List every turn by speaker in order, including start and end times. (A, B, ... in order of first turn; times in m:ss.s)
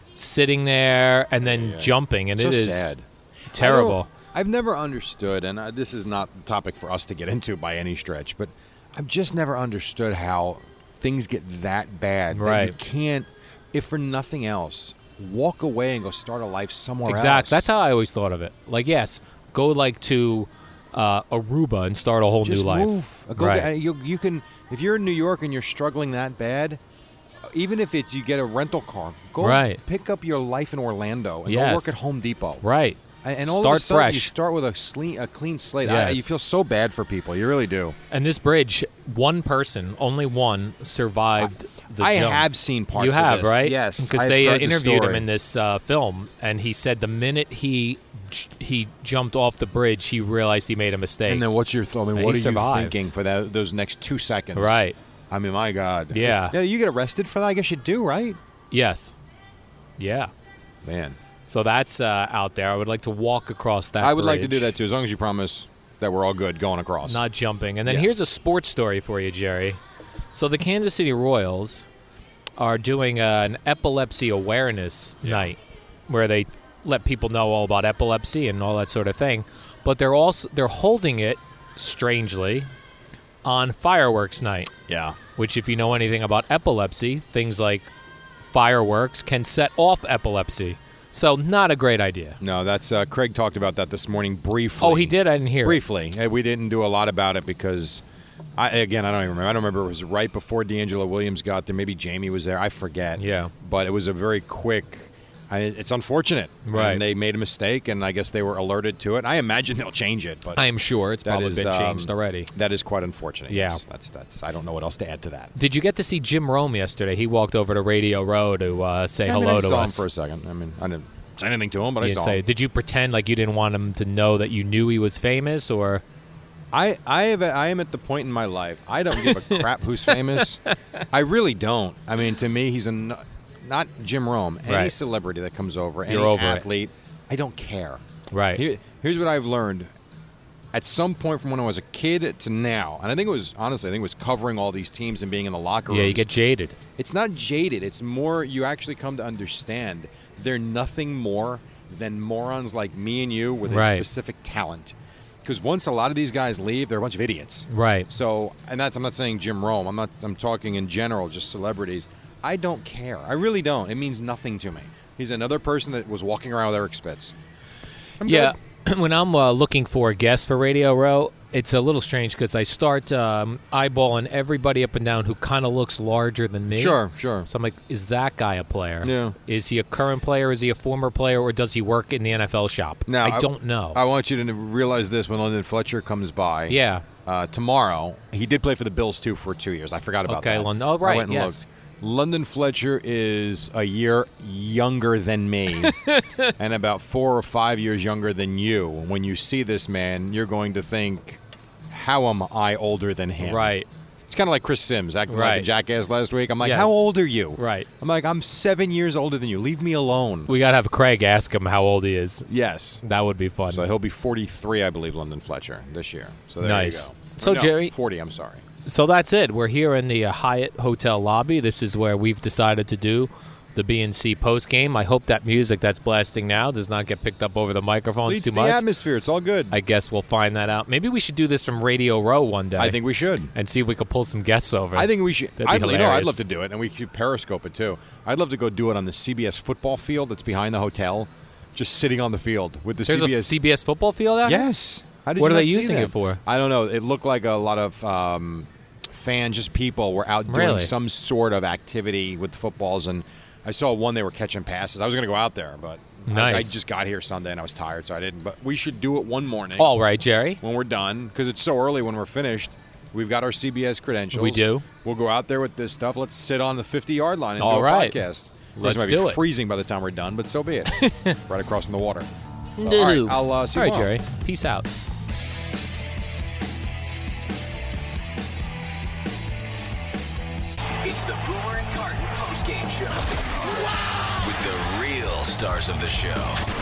0:00.1-0:02.9 A
0:01.4-0:17.6 B
0:03.5-0:04.1 A
0:12.3-0:12.8 A
0:17.1-0:23.7 A
0:22.4-0:26.8 B
0:27.5-0:32.6 B
0:29.4-0:29.8 A
0:31.5-0:32.0 A
0:32.6-0:34.3 A
0:33.2-0:38.0 B
0:35.8-0:36.3 A
0:38.1-0:51.4 A
0:42.0-0:45.2 B
0:51.3-0:58.4 B
0:52.2-0:53.0 A
0:54.6-0:55.0 A
0:56.1-0:56.6 A
0:58.7-0:59.2 A
1:00.0-1:00.3 A
1:00.8-1:01.2 B
1:01.5-1:04.7 A
1:04.0-1:07.2 B
1:07.1-1:09.8 A
1:10.3-1:11.9 A
1:12.6-1:15.6 A
1:15.2-1:15.5 B
1:16.1-1:22.7 A
1:23.4-1:24.7 A
1:24.9-1:25.2 B
1:25.4-1:27.9 A
1:28.4-1:32.4 A
1:32.4-1:38.0 B
1:34.8-1:35.8 A
1:38.6-1:50.7 B
1:43.2-1:43.5 A
1:46.7-1:47.0 A
1:50.6-1:52.5 A
1:51.2-1:55.5 B
1:53.5-1:53.8 A
1:55.6-2:00.0 A
1:59.2-2:02.4 B
2:02.0-2:06.0 A
2:06.7-2:10.6 B
2:09.2-2:10.7 A
2:11.1-2:18.0 B
2:14.7-2:14.9 A
2:16.1-2:16.6 A
2:18.3-2:18.6 A
2:18.6-2:19.9 B
2:20.7-2:26.3 B
2:25.9-2:26.8 A
2:27.0-2:34.9 B
2:33.7-2:34.1 A
2:35.4-2:47.3 B
2:37.7-2:38.1 A
2:48.2-2:48.6 B
2:48.2-3:04.0 A
2:56.7-2:57.5 B
2:59.0-2:59.4 B
3:03.1-3:16.0 B
3:06.7-3:07.1 A
3:10.3-3:11.6 A
3:15.8-3:16.5 A
3:16.6-3:21.4 B
3:21.9-3:23.8 B
3:23.4-3:23.9 A
3:24.3-3:30.5 B
3:25.3-3:25.7 A
3:26.6-3:27.0 A
3:27.6-3:27.9 A
3:30.5-3:32.5 A
3:32.5-3:33.0 B
3:33.0-3:33.9 A
3:33.7-3:38.6 B
3:36.6-3:37.9 A
3:38.8-3:48.8 A
3:48.3-3:49.7 B
3:49.7-3:53.0 A
3:52.8-3:53.5 B
3:53.5-3:56.4 A
3:55.0-4:03.6 B
4:03.1-4:04.6 A
4:04.4-4:19.9 B
4:05.4-4:06.4 A
4:10.5-4:10.9 A
4:16.3-4:16.8 A
4:19.8-4:20.6 A
4:20.6-4:32.3 B
4:24.3-4:24.8 A
4:27.6-4:28.2 A
4:28.8-4:29.4 A
4:30.9-4:31.4 A
4:32.8-4:34.9 A
4:32.8-4:34.1 B
4:41.0-4:46.6 C